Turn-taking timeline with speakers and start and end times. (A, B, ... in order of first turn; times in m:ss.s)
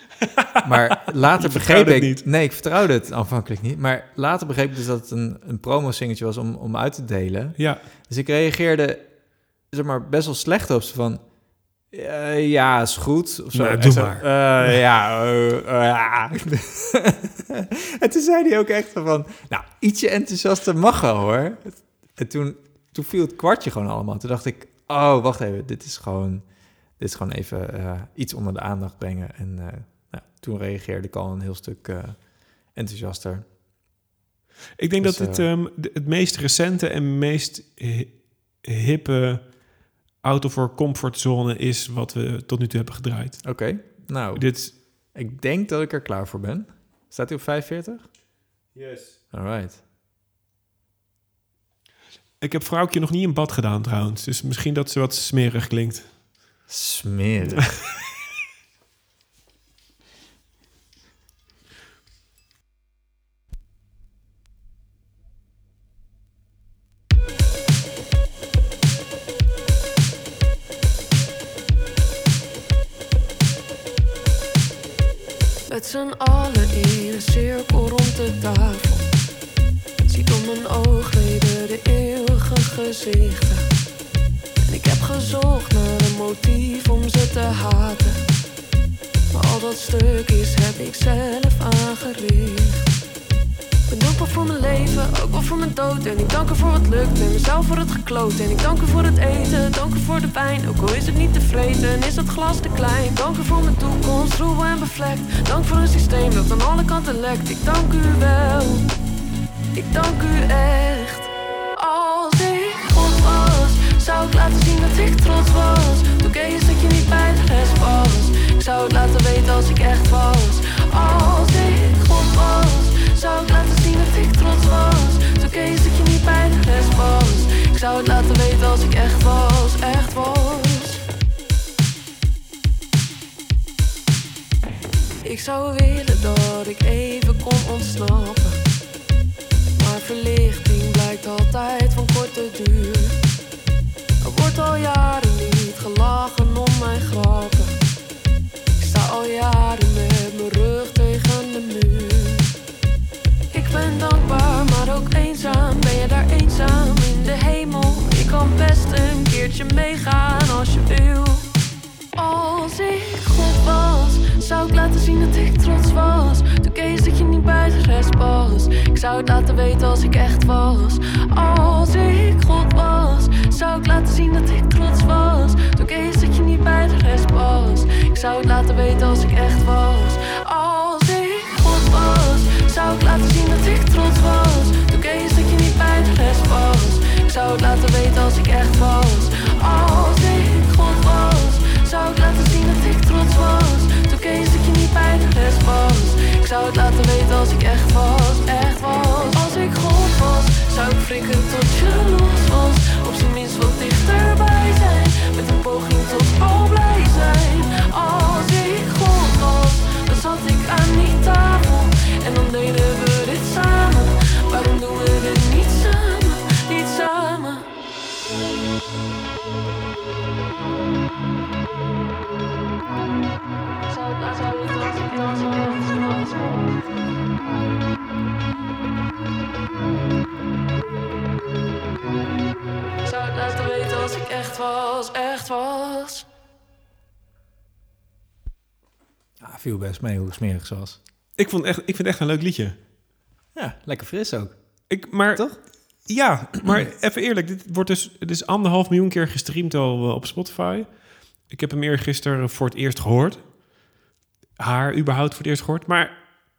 0:00.2-0:02.2 A
0:00.6-0:33.4 B
0:07.6-0:07.8 A
0:13.5-0:14.7 A
0:34.8-0:44.7 A
0:35.0-0:35.5 B
0:43.4-0:48.1 B
0:48.7-0:49.2 A
0:49.3-0:49.8 B
0:52.4-0:56.2 A
0:56.7-0:57.8 B
1:15.7-1:19.1 C
1:20.1-1:23.6 C
1:24.6-1:28.2 C
1:29.3-1:32.8 C
1:33.9-1:48.8 C
1:49.7-2:11.0 C
2:15.2-2:18.6 C
2:19.8-2:23.2 C
2:24.2-2:27.7 C
2:28.8-2:32.5 C
2:33.5-2:41.5 C
2:42.1-3:37.7 C
3:43.8-3:46.8 C
3:53.0-3:56.3 C
3:59.4-4:01.0 B
4:01.4-4:02.8 A
4:03.5-4:05.6 B
4:04.9-4:13.5 A
4:14.6-4:16.2 A